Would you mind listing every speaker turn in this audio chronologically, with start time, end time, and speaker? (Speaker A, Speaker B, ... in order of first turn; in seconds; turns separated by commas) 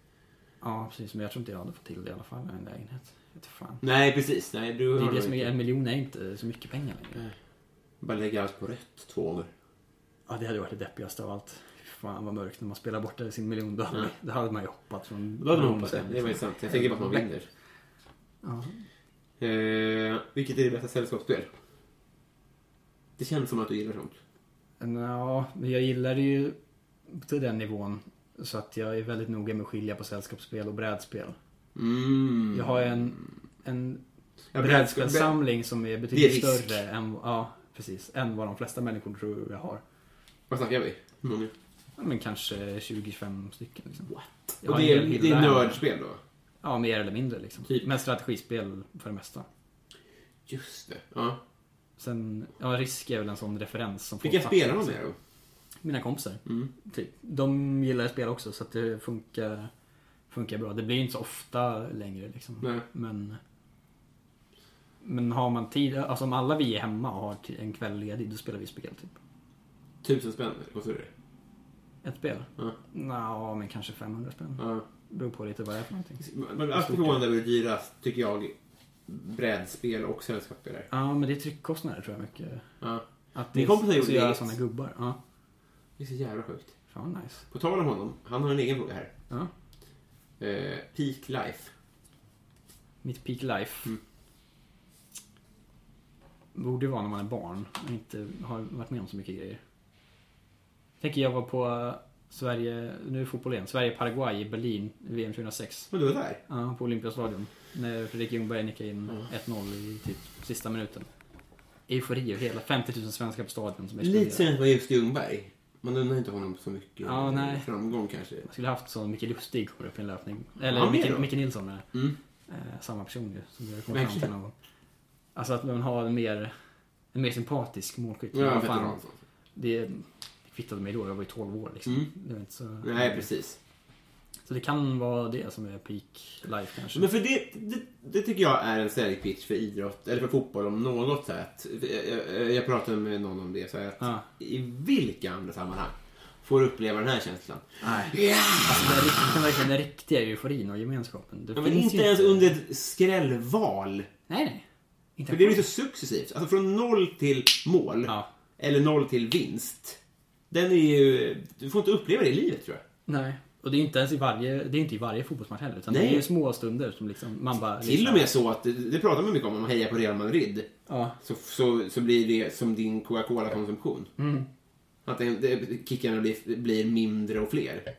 Speaker A: 0.6-3.8, Speaker B: 3.8-5.5, Speaker A: 5.0-7.2, Speaker B: 8.0-9.5, Speaker A: 10.3-17.3, Speaker B: 15.4-17.4, Speaker A: 18.4-18.8, Speaker B: 19.4-21.5, Speaker B: 23.2-24.2, Speaker A: 24.8-26.6, Speaker A: 27.1-31.4, Speaker B: 31.7-33.2, Speaker A: 32.5-34.0, Speaker B: 34.5-35.4, Speaker A: 34.6-39.8, Speaker B: 36.1-36.8, Speaker B: 40.5-41.5, Speaker A: 42.0-44.1, Speaker B: 44.1-46.2, Speaker A: 44.6-45.8, Speaker A: 46.6-49.5, Speaker B: 50.5-51.4, Speaker A: 52.0-55.0, Speaker B: 54.2-55.1, Speaker A: 55.8-59.7, Speaker B: 56.5-56.7, Speaker A: 60.3-63.4, Speaker A: 65.0-69.2, Speaker B: 70.0-71.1, Speaker A: 72.0-77.2, Speaker B: 74.6-74.8, Speaker B: 76.2-78.5, Speaker B: 79.1-80.9, Speaker A: 80.9-82.7, Speaker B: 82.8-84.5, Speaker A: 83.3-85.2, Speaker B: 86.0-86.7, Speaker A: 86.9-87.4, Speaker B: 87.5-89.1, Speaker B: 90.4-91.7, Speaker A: 93.0-93.9, Speaker A: 96.5-99.6, Speaker A: 101.0-105.9, Speaker B: 105.9-106.4, Speaker A: 106.5-111.1, Speaker A: 111.9-114.4, Speaker B: 114.0-118.5, Speaker A: 117.0-117.7, Speaker A: 118.4-121.8, Speaker B: 120.7-121.3, Speaker B: 121.9-122.2, Speaker A: 122.5-124.5, Speaker B: 123.9-124.3, Speaker A: 125.3-126.5, Speaker A: 127.1-129.0, Speaker B: 128.3-129.1, Speaker A: 129.6-133.3, Speaker B: 132.8-133.6, Speaker A: 134.4-137.1, Speaker B: 136.9-149.4, Speaker A: 144.0-144.2, Speaker A: 147.8-152.5, Speaker B: 151.6-154.1, Speaker A: 154.3-154.6, Speaker A: 155.2-155.6, Speaker B: 155.3-160.0, Speaker B: 160.5-162.8, Speaker A: 163.1-168.3, Speaker B: 165.9-166.3, Speaker B: 167.8-170.7, Speaker A: 170.9-171.2, Speaker B: 171.2-174.1, Speaker A: 174.2-174.5, Speaker B: 175.1-177.9